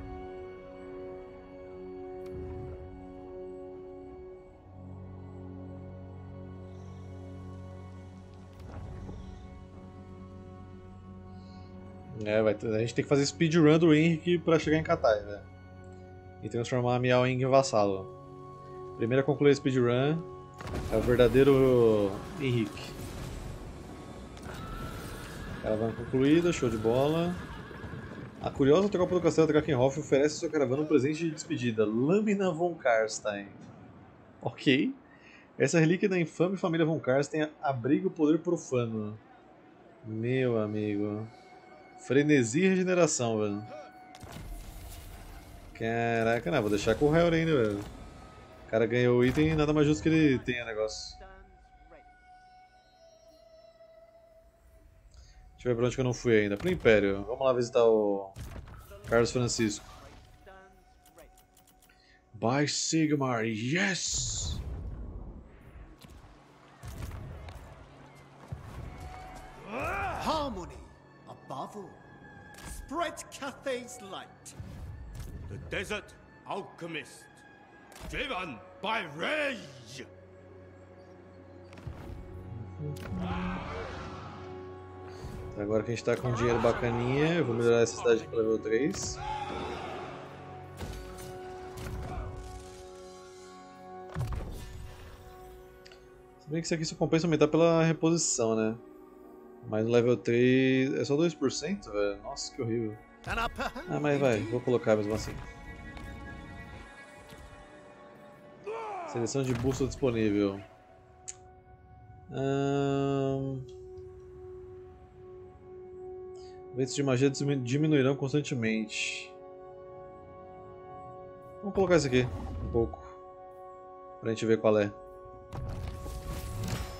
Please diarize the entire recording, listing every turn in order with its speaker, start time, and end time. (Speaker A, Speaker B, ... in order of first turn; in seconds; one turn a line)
Speaker A: 12.1-15.5
Speaker A: 16.4-18.1
Speaker A: 19.0-20.3
Speaker A: 20.9-22.9
Speaker A: 25.6-27.4
Speaker A: 28.4-33.6
Speaker A: 34.4-35.0
Speaker A: 35.6-39.2
Speaker A: 40.0-41.3
Speaker A: 42.0-43.7
Speaker A: 45.7-47.9
Speaker A: 48.7-51.1
Speaker B: 50.0-52.1
Speaker A: 55.6-58.4
Speaker B: 58.9-61.3
Speaker A: 59.1-59.8
Speaker A: 62.3-64.6
Speaker C: 69.7-70.1
Speaker B: 70.1-72.0
Speaker B: 72.6-74.6
Speaker C: 75.5-77.4
Speaker C: 78.1-80.1
Speaker A: 82.5-83.6
Speaker A: 85.5-89.2
Speaker A: 96.4-98.8
Speaker A: 99.6-103.0
Speaker B: 103.2-104.6
Speaker A: 103.9-105.4
Speaker A: 109.1-110.7
Speaker A: 112.3-113.7
Speaker A: 116.7-119.3
Speaker A: 121.6-123.2
Speaker A: 124.2-125.0